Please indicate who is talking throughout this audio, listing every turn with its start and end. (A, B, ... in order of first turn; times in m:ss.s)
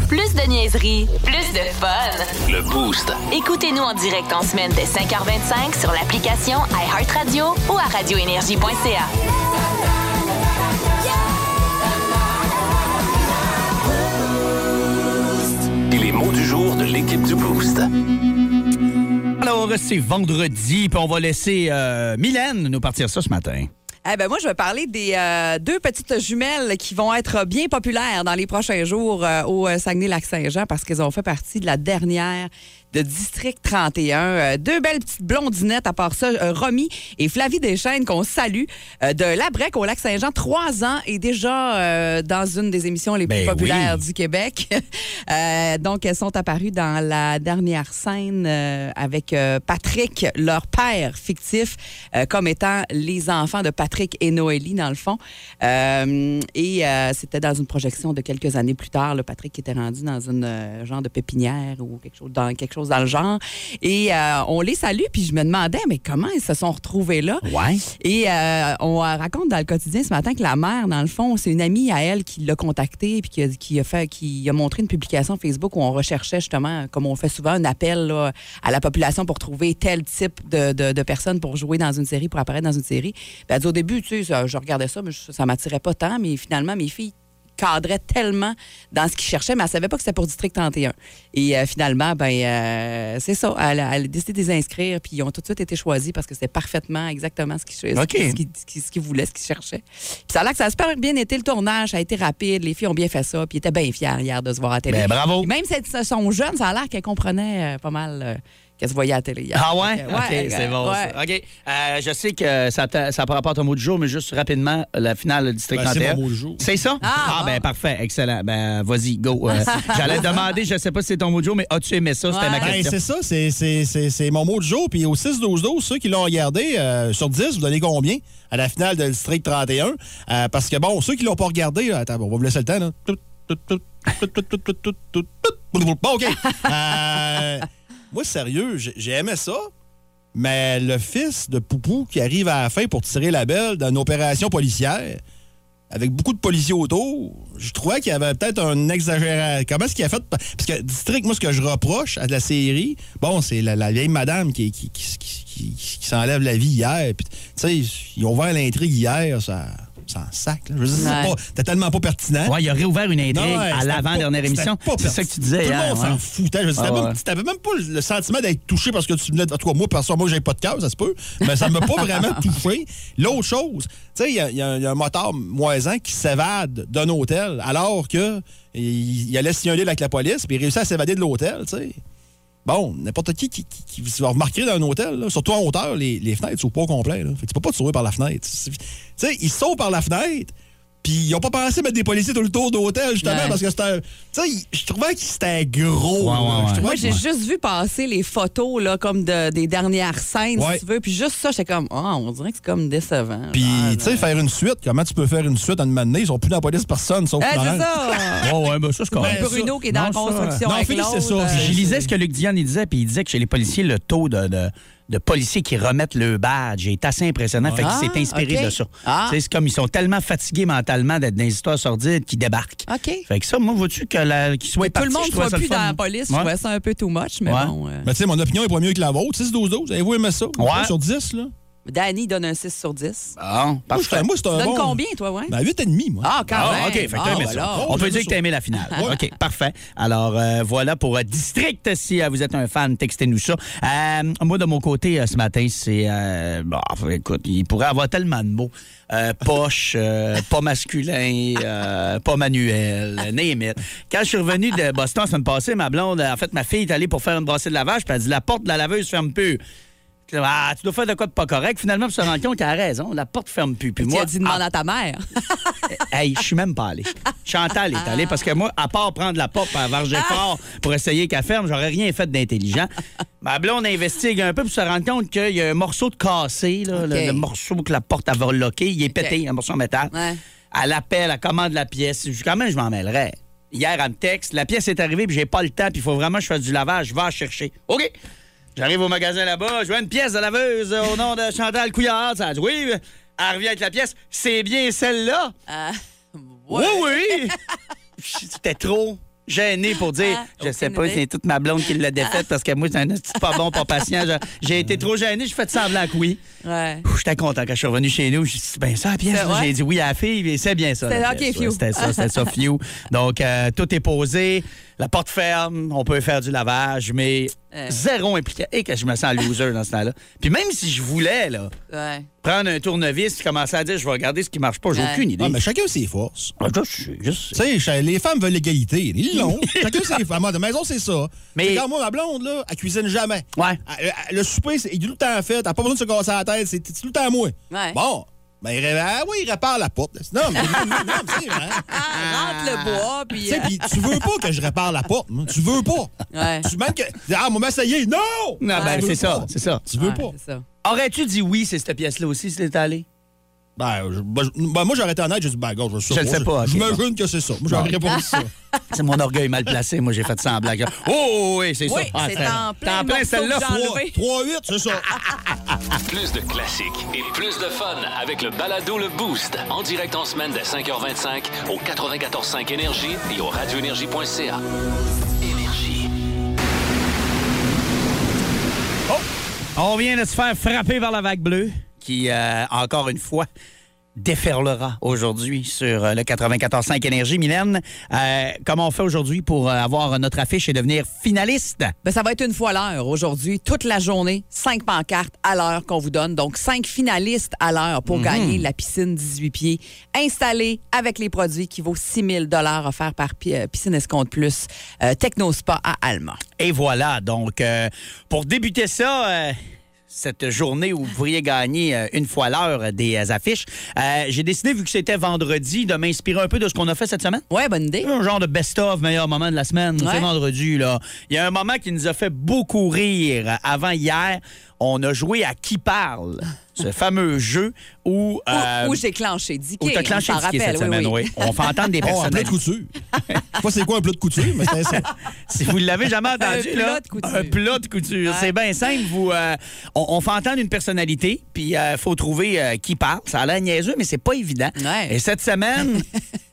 0:00.1-0:02.3 A
0:02.4-0:03.2 B
0:03.3-0:09.1 A
0:15.8-0:17.9 B
0:19.4-0:23.7 C
0:24.0-1:07.4 D
0:43.3-0:44.0 C
1:07.4-1:07.8 C
1:08.0-1:51.1 D
1:37.9-1:38.4 C
1:44.9-1:45.5 C
1:49.5-2:02.9 C
1:55.7-1:56.6 E
1:57.0-1:57.6 D
1:59.6-2:00.4 D
2:00.0-2:00.3 E
2:02.3-2:02.8 D
2:02.6-2:19.7 E
2:20.3-2:25.2 E
2:25.9-2:42.6 E
2:41.0-2:41.4 D
2:42.4-2:46.2 C
2:43.3-3:02.0 E
2:46.8-2:47.2 C
3:02.6-3:17.2 E
3:13.2-3:13.6 D
3:16.2-3:17.2 C
3:16.8-3:24.3 D
3:20.6-3:20.8 E
3:23.5-3:28.4 E
3:27.4-3:28.5 D
3:28.4-3:30.6 C
3:29.1-3:31.8 D
3:29.2-3:29.7 E
3:30.6-3:32.1 E
3:31.5-3:46.5 C
3:37.6-3:37.9 E
3:37.8-3:39.4 D
3:42.9-3:43.2 D
3:44.8-3:48.1 D
3:47.5-3:47.7 C
3:48.0-3:51.5 E
3:50.6-3:50.9 C
3:51.8-3:53.3 D
3:53.4-3:54.3 C
3:53.9-3:58.4 E
3:54.5-3:55.5 D
3:56.2-3:58.0 D
3:56.5-4:19.6 C
3:58.9-3:59.2 E
4:20.3-4:24.6 C
4:24.0-4:25.2 D
4:25.9-4:40.1 C
4:28.0-4:28.4 D
4:37.0-4:37.4 D
4:40.1-4:40.4 D
4:40.7-4:48.1 C
4:48.8-4:55.5 C
4:55.7-4:57.5 D
4:56.7-4:57.5 C
4:58.2-5:06.4 C
5:00.2-5:01.2 D
5:06.6-5:07.0 D
5:07.0-5:21.7 C
5:09.3-5:09.7 D
5:11.1-5:12.3 D
5:17.7-5:18.0 D
5:21.9-5:22.3 D
5:22.4-5:25.6 C
5:24.9-5:25.2 D
5:25.4-5:26.5 E
5:26.6-5:27.6 C
5:27.5-5:41.8 E
5:29.3-5:30.2 C
5:31.5-5:31.8 C
5:37.7-5:38.0 D
5:40.6-5:41.0 D
5:41.9-5:44.2 D
5:42.3-5:42.9 C
5:43.4-5:50.3 E
5:46.3-5:46.7 D
5:48.6-5:49.8 C
5:48.7-5:49.2 D
5:50.0-5:50.6 D
5:50.8-5:53.0 C
5:53.8-5:58.5 E
5:56.1-5:57.0 C
5:58.1-5:58.4 D
5:58.9-6:03.8 C
6:01.9-6:04.2 D
6:03.6-6:05.1 E
6:06.1-6:14.6 B
6:15.4-6:16.1 B
6:19.8-6:23.5 C
6:24.2-6:31.9 C
6:32.0-6:46.4 D
6:38.1-6:38.6 C
6:46.6-6:49.6 C
6:50.1-6:57.4 C
6:57.5-6:58.1 D
6:58.0-7:09.0 C
7:00.0-7:00.3 D
7:08.5-7:11.3 D
7:09.8-7:12.5 C
7:12.0-7:12.9 E
7:13.5-7:15.1 E
7:15.5-7:26.0 C
7:16.4-7:17.6 D
7:24.8-7:25.1 D